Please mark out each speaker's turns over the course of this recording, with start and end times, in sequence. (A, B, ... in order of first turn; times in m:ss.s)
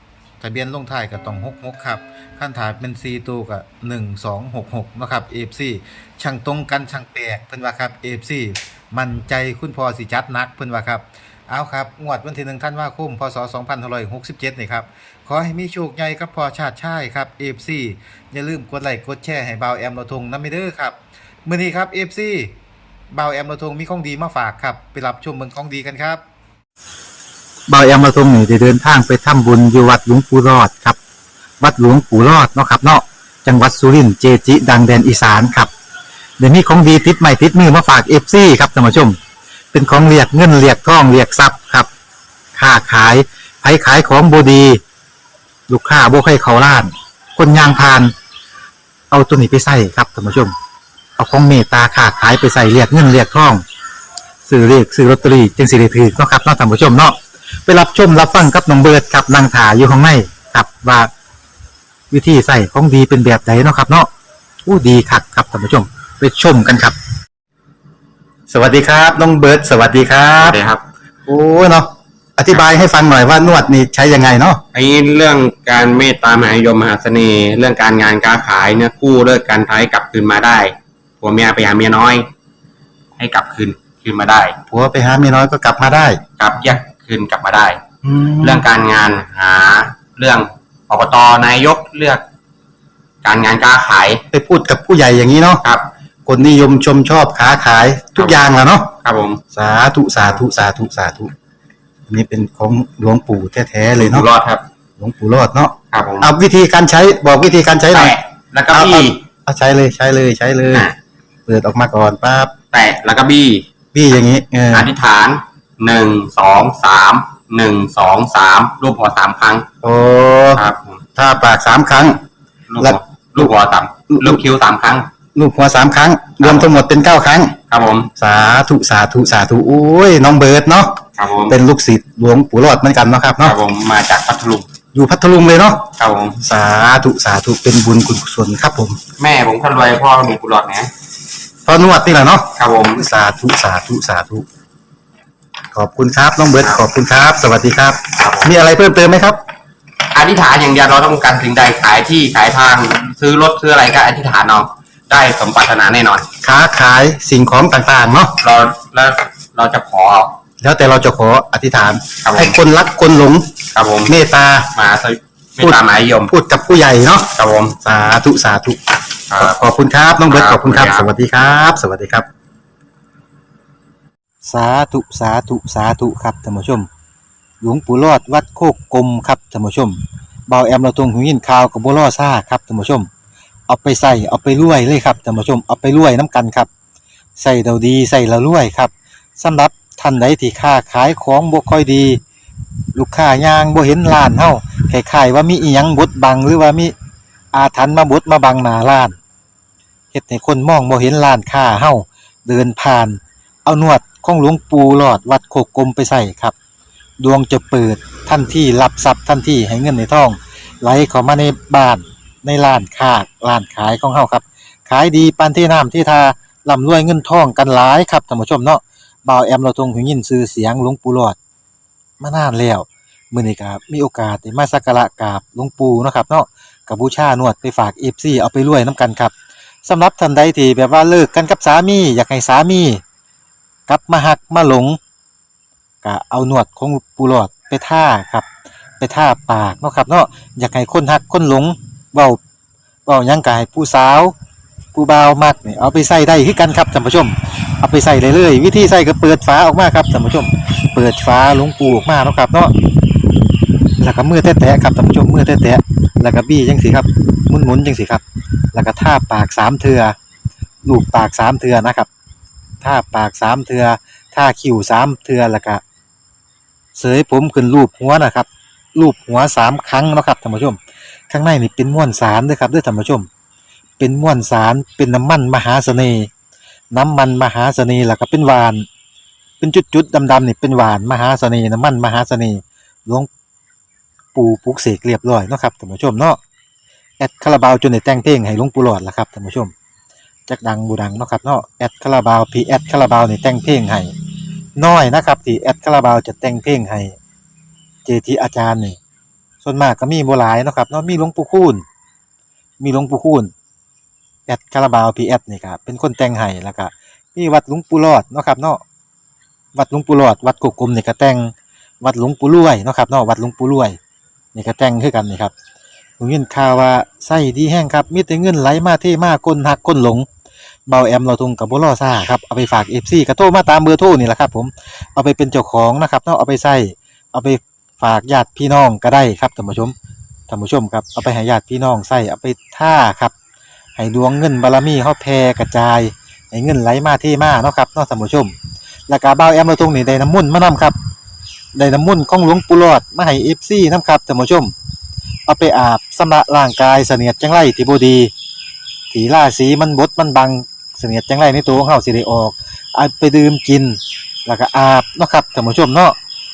0:00.4-0:22.6 A
0:23.1-0:26.2 A
0:27.7-0:31.0 A
0:31.6-0:35.7 A
0:36.4-0:39.2 A
0:39.7-0:41.9 A
0:42.6-0:44.8 A
0:45.7-0:48.1 A
0:49.1-0:50.5 A
0:51.2-0:53.6 A
0:54.5-1:01.1 A
1:02.1-1:04.1 A
1:04.6-1:07.0 A
1:08.5-1:10.6 A
1:10.4-1:10.8 B
1:11.3-1:14.6 A
1:14.7-1:22.3 B
1:23.2-1:24.6 B
1:24.7-1:26.2 A
1:26.4-1:27.8 B
1:28.0-1:28.7 A
1:28.4-1:32.2 B
1:33.2-1:34.2 B
1:34.3-1:35.6 A
1:36.3-1:38.9 A
1:38.2-1:38.4 B
1:39.0-1:39.4 B
1:39.5-1:41.3 A
1:42.1-1:44.3 A
1:43.9-1:44.6 B
1:45.0-1:48.2 A
1:45.9-1:46.3 B
1:47.9-1:49.2 B
1:48.7-1:50.9 A
1:50.7-1:51.0 B
1:51.5-1:52.5 A
1:52.7-1:53.6 B
1:53.9-1:54.9 A
1:54.7-1:59.7 B
1:59.8-2:00.6 A
2:00.5-2:01.0 B
2:01.2-2:02.2 A
2:02.7-2:05.1 B
2:02.8-2:03.5 A
2:04.1-2:04.4 A
2:05.4-2:07.6 A
2:06.4-2:06.8 B
2:07.7-2:08.1 B
2:08.2-2:13.6 A
2:11.2-2:11.6 B
2:13.4-2:14.7 B
2:14.9-2:15.9 A
2:16.0-2:16.4 B
2:16.4-2:19.0 A
2:19.2-2:20.9 B
2:21.7-2:24.4 A
2:22.6-2:23.1 B
2:25.7-2:29.4 A
2:26.6-2:26.8 B
2:28.2-2:28.6 B
2:30.1-2:36.3 B
2:36.4-2:38.4 A
2:38.4-2:40.4 B
2:40.6-2:43.5 A
2:42.2-2:42.6 B
2:43.7-2:44.2 B
2:44.1-2:44.7 A
2:44.7-2:46.3 B
2:45.6-2:47.3 A
2:47.3-2:47.8 B
2:47.8-2:48.8 A
2:49.3-2:49.6 B
2:49.4-2:52.3 A
2:50.3-2:51.1 B
2:54.4-2:56.9 A
2:57.6-3:03.1 A
3:03.7-3:06.7 A
3:07.4-3:12.2 A
3:13.0-3:17.0 A
3:17.5-3:19.2 A
3:20.1-3:26.6 A
3:27.2-3:41.4 A
3:42.2-3:49.3 A
3:49.8-3:53.0 A
3:53.9-3:55.0 A
3:56.0-3:58.5 A
3:59.0-4:02.4 A
4:03.1-4:04.3 A
4:04.9-4:12.7 A
4:14.0-4:20.2 A
4:20.8-4:22.1 A
4:22.8-4:25.8 A
4:27.0-4:30.8 A
4:31.3-4:33.3 A
4:34.0-4:36.3 A
4:36.9-4:38.9 A
4:39.6-4:43.3 A
4:44.3-4:46.4 A
4:47.2-4:49.7 A
4:50.5-4:54.1 A
4:54.8-4:57.2 A
4:58.0-4:59.0 A
4:59.6-5:01.8 A
5:02.8-5:03.5 A
5:04.5-5:08.8 A
5:09.7-5:14.0 A
5:14.5-5:15.5 A
5:16.2-5:20.3 A
5:20.9-5:30.0 A
5:30.5-5:33.3 A
5:34.0-5:38.6 A
5:39.1-5:41.0 A
5:41.8-5:44.7 A
5:45.5-5:48.3 A
5:49.1-5:56.2 A